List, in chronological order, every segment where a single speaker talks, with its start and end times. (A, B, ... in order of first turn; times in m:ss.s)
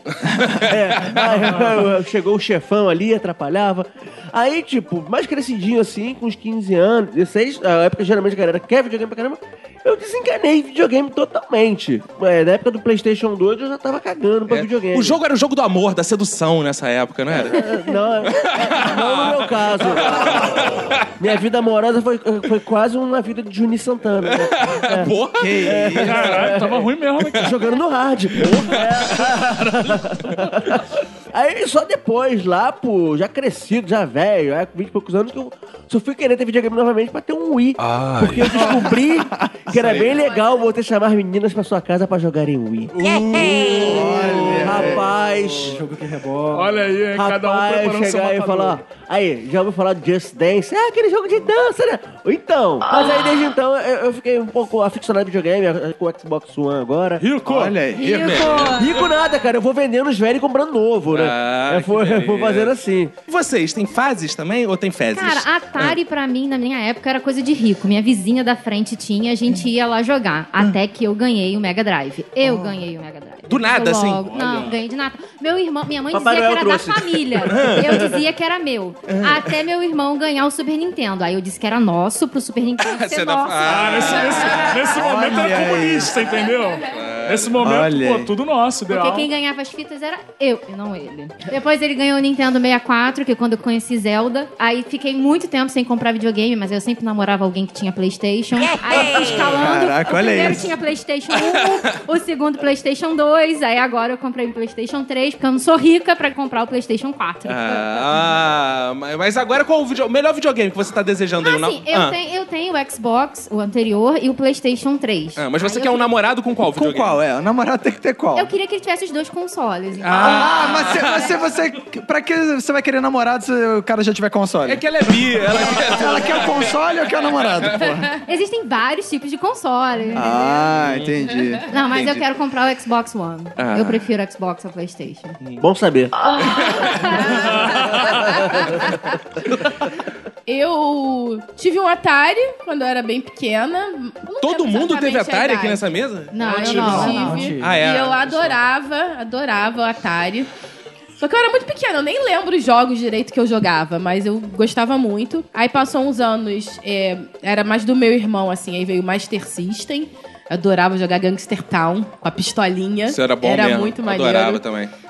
0:00.6-0:15.2 A
0:01.4-0:01.8 B
0:14.5-0:21.0 C
0:17.3-0:26.9 A
0:24.4-0:26.3 C
0:25.3-0:26.5 D
0:26.0-0:27.8 B
0:27.2-0:27.5 C
0:27.4-0:45.8 A
0:28.4-0:28.8 C
0:29.4-0:30.7 B
0:37.8-0:38.5 C
0:38.5-0:38.9 B
0:38.5-0:38.9 D
0:39.5-0:40.1 D
0:42.9-0:45.1 D
0:45.5-0:47.0 E
0:46.5-0:48.8 B
0:47.1-0:57.2 A
0:57.2-0:57.8 B
0:57.4-0:58.8 D
0:57.9-0:59.0 F
0:58.1-0:58.7 C
0:58.8-1:03.1 A
1:01.1-1:02.7 C
1:03.3-1:06.0 C
1:05.1-1:24.6 F
1:13.5-1:14.4 C
1:14.3-1:14.7 B
1:16.1-1:18.0 A
1:17.5-1:18.0 C
1:22.8-1:24.8 C
1:23.6-1:29.3 B
1:24.9-1:26.2 D
1:26.8-1:27.6 C
1:27.6-1:28.3 D
1:28.9-1:48.2 F
1:39.1-1:40.7 D
1:47.4-1:52.2 C
1:51.4-1:56.1 F
1:55.4-1:57.2 C
1:56.7-1:58.5 D
1:58.3-2:01.0 F
2:00.0-2:01.4 C
2:00.1-2:04.8 D
2:04.6-2:06.8 C
2:05.6-2:08.1 D
2:08.2-2:10.5 F
2:10.1-2:12.2 D
2:10.7-2:11.2 C
2:11.7-2:15.4 F
2:13.6-2:14.0 C
2:15.6-2:16.1 A
2:17.1-2:18.6 G
2:17.5-2:18.2 B
2:20.4-2:25.8 G
2:24.4-2:26.9 C
2:26.3-2:27.5 F
2:26.4-2:30.5 G
2:26.5-2:27.1 B
2:26.9-2:27.8 E
2:27.6-2:28.6 C
2:31.2-2:44.6 G
2:43.0-2:44.9 C